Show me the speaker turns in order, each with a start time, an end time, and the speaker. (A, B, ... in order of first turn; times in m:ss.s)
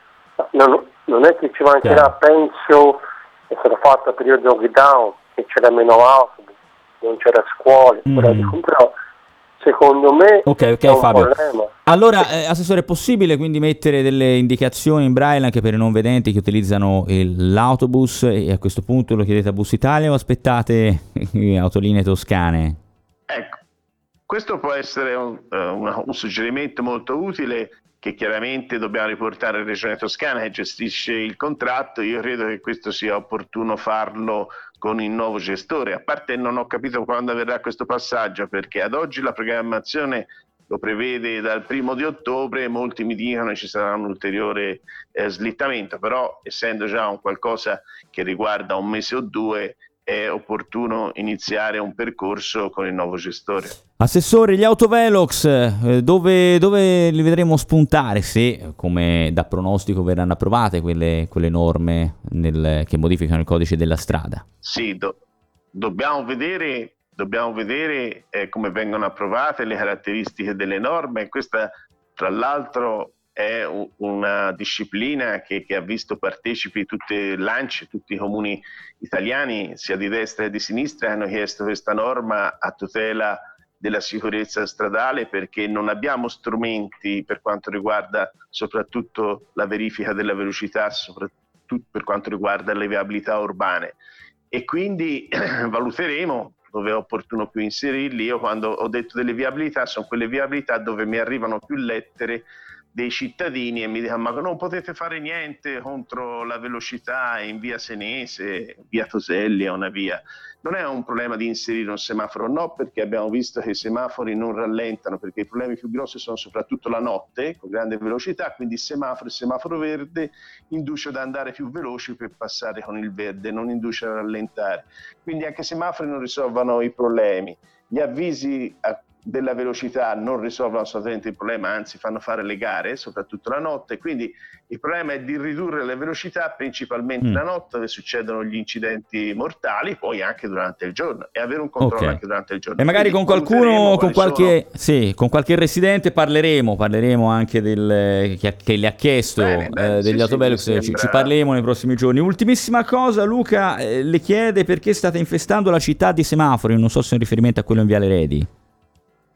0:00.4-0:08.9 A
0:01.8-0:02.1 B
0:08.1-0:08.6 B
0:09.6-0:11.7 A
0:10.4-0:11.3 B
0:11.8-0:22.8 B
0:23.3-0:23.6 C
0:24.3-0:53.7 C
0:54.0-1:04.4 B
1:04.6-1:05.2 C
1:05.7-1:34.0 C
1:34.5-2:24.6 C
2:21.8-2:22.2 B
2:22.8-2:38.5 B
2:29.4-2:31.3 C